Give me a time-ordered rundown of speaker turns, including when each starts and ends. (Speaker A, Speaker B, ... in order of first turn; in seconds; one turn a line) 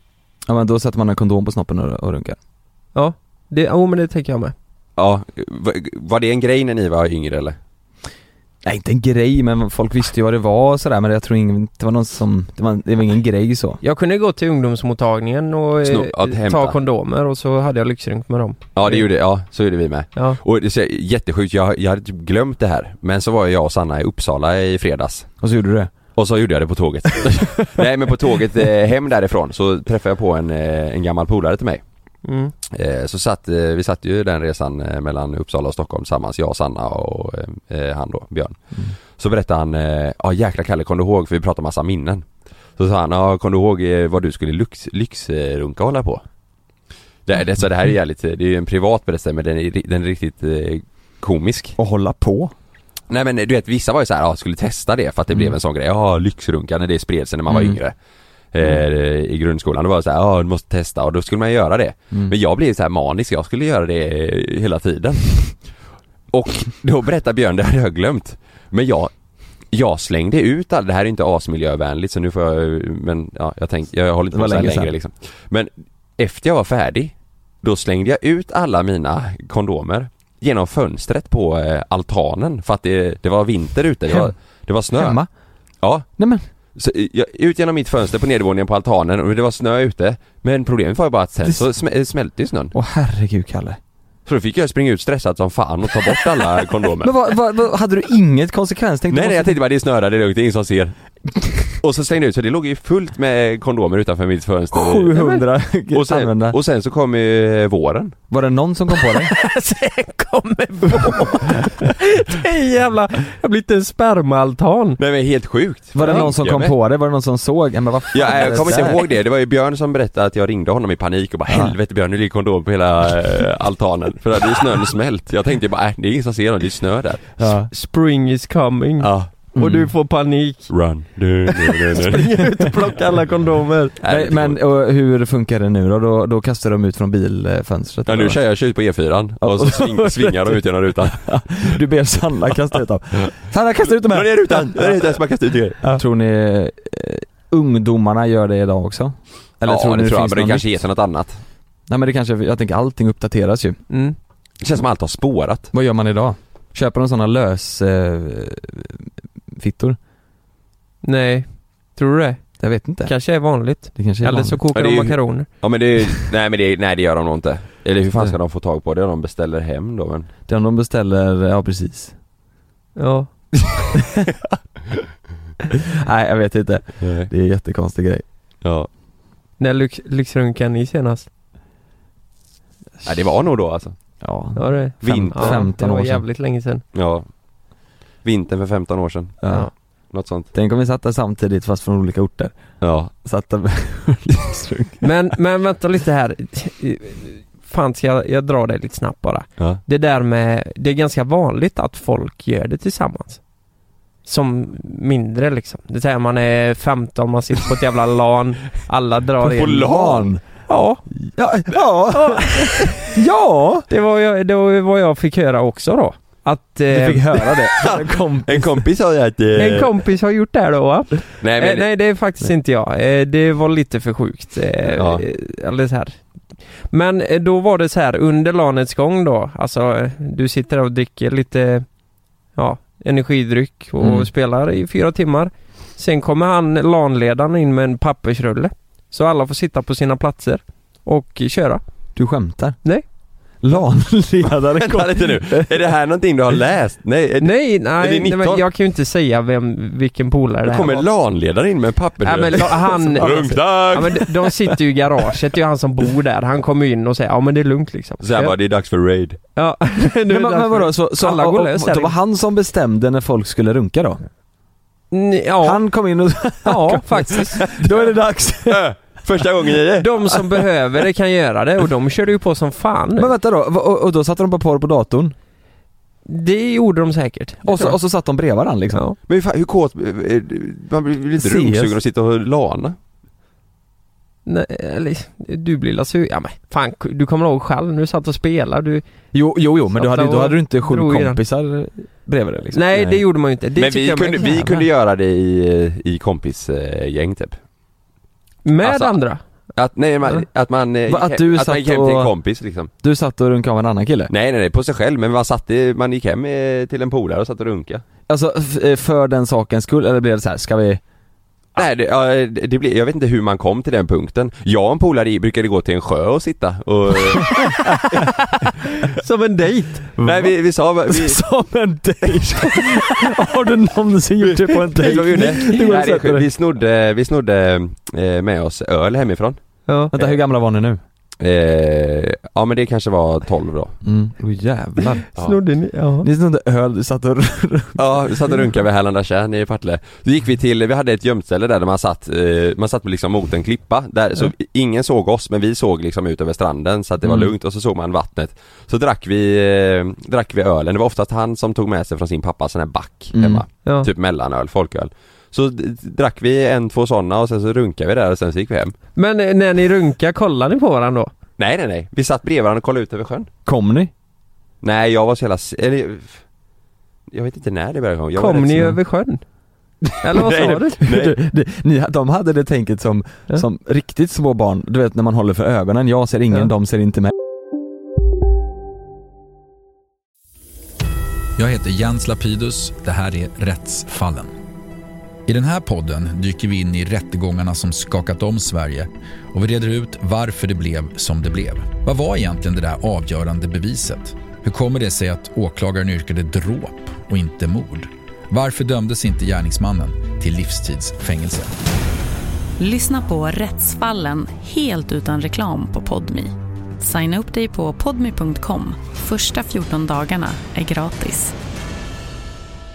Speaker A: 0.5-2.4
Speaker B: 2.9-4.5
Speaker C: 5.0-7.6
Speaker A: 8.6-13.8
Speaker B: 13.8-19.0
Speaker C: 15.8-16.8
Speaker C: 18.7-25.3
Speaker A: 25.4-25.9
Speaker C: 26.1-31.8
Speaker B: 32.2-32.5
Speaker C: 32.7-38.6
Speaker C: 39.2-42.2
Speaker C: 42.8-46.2
Speaker C: 47.2-51.7
Speaker A: 51.8-52.5
Speaker C: 53.1-57.9
Speaker A: 57.5-57.8
Speaker C: 58.5-65.6
Speaker C: 66.3-69.1
Speaker C: 69.7-85.2
Speaker A: 74.3-74.9
Speaker A: 84.1-84.3
Speaker A: 84.9-85.3
Speaker C: 85.8-86.1
Speaker A: 86.2-86.4
Speaker C: 86.7-92.7
Speaker A: 92.7-93.8
Speaker C: 94.2-97.2
Speaker A: 97.0-99.6
Speaker C: 99.1-100.9
Speaker C: 101.8-105.1
Speaker A: 104.7-106.6
Speaker B: 105.1-105.4
Speaker C: 105.9-108.1
Speaker A: 108.3-109.3
Speaker B: 109.0-115.0
Speaker C: 115.0-116.7
Speaker A: 115.9-119.0
Speaker B: 116.0-116.3
Speaker C: 118.1-127.3
Speaker A: 121.5-121.7
Speaker A: 127.4-127.7
Speaker B: 127.7-130.7
Speaker C: 129.0-129.9
Speaker A: 129.6-129.8
Speaker C: 130.7-132.3
Speaker B: 131.7-133.9
Speaker C: 134.0-134.6
Speaker A: 134.1-138.4
Speaker C: 138.1-141.8
Speaker A: 139.4-140.4
Speaker A: 141.1-145.1
Speaker C: 143.9-145.8
Speaker A: 145.8-150.7
Speaker C: 149.6-151.4
Speaker A: 151.9-153.8
Speaker B: 153.9-154.2
Speaker C: 154.6-155.7
Speaker A: 155.7-160.0
Speaker B: 161.0-165.5
Speaker A: 162.6-163.1
Speaker A: 163.9-164.6
Speaker C: 164.7-170.3
Speaker A: 170.5-172.1
Speaker B: 173.0-173.3
Speaker A: 175.8-178.2
Speaker C: 177.0-177.3
Speaker B: 179.6-181.3
Speaker C: 183.0-183.9
Speaker A: 184.2-186.2
Speaker B: 184.6-186.8
Speaker C: 185.0-185.6
Speaker C: 186.9-187.3
Speaker C: 188.2-189.4
Speaker A: 189.4-189.7
Speaker C: 190.1-190.5
Speaker A: 190.5-192.6
Speaker C: 192.8-193.1
Speaker A: 193.1-195.1
Speaker B: 195.0-203.4
Speaker B: 204.2-210.0
Speaker C: 209.4-210.3
Speaker A: 209.5-210.4
Speaker B: 210.7-211.0
Speaker A: 211.2-213.8
Speaker B: 212.1-212.9
Speaker B: 213.9-217.3
Speaker A: 216.9-218.8
Speaker C: 217.8-219.9
Speaker B: 219.6-226.2
Speaker C: 221.4-221.9
Speaker C: 224.9-225.2
Speaker B: 226.9-231.8
Speaker B: 232.6-241.8
Speaker A: 234.0-234.3
Speaker A: 242.1-242.8
Speaker A: 243.6-245.7
Speaker C: 244.8-248.6
Speaker B: 247.4-251.1
Speaker C: 250.6-254.3
Speaker B: 252.2-258.5
Speaker A: 253.0-254.0
Speaker C: 258.2-259.4
Speaker B: 259.6-262.1
Speaker A: 260.3-264.2
Speaker B: 265.1-265.8
Speaker A: 265.6-268.9
Speaker B: 266.6-267.6
Speaker C: 267.6-268.0
Speaker C: 268.7-270.4
Speaker B: 270.0-273.3
Speaker A: 273.2-275.3
Speaker B: 276.2-277.9
Speaker A: 277.6-279.0
Speaker C: 279.3-282.9
Speaker A: 281.4-281.9
Speaker B: 284.4-289.0
Speaker A: 289.3-293.2
Speaker B: 289.9-291.4
Speaker B: 292.7-294.7
Speaker C: 293.8-297.6
Speaker B: 298.6-299.4
Speaker C: 298.8-299.1
Speaker C: 299.7-302.9
Speaker A: 301.1-302.3
Speaker A: 303.0-304.3
Speaker C: 304.3-308.0
Speaker A: 308.3-311.0
Speaker C: 311.8-318.2
Speaker B: 319.1-320.1
Speaker A: 320.2-320.5
Speaker C: 320.2-321.4
Speaker A: 321.1-326.5
Speaker C: 324.4-329.6
Speaker B: 329.9-330.2
Speaker A: 330.1-331.0
Speaker C: 331.4-333.9
Speaker A: 334.0-335.2
Speaker B: 335.3-336.3
Speaker A: 336.2-338.0
Speaker C: 337.9-358.9
Speaker A: 347.2-347.5
Speaker A: 353.3-353.6
Speaker B: 359.1-361.3
Speaker C: 361.6-363.5
Speaker A: 363.6-364.1
Speaker C: 364.8-366.4
Speaker C: 367.3-368.9
Speaker B: 368.4-369.4
Speaker B: 370.2-371.0
Speaker C: 370.3-371.4
Speaker A: 371.0-377.3
Speaker D: 381.6-384.5
Speaker D: 385.5-401.7
Speaker E: 402.8-411.5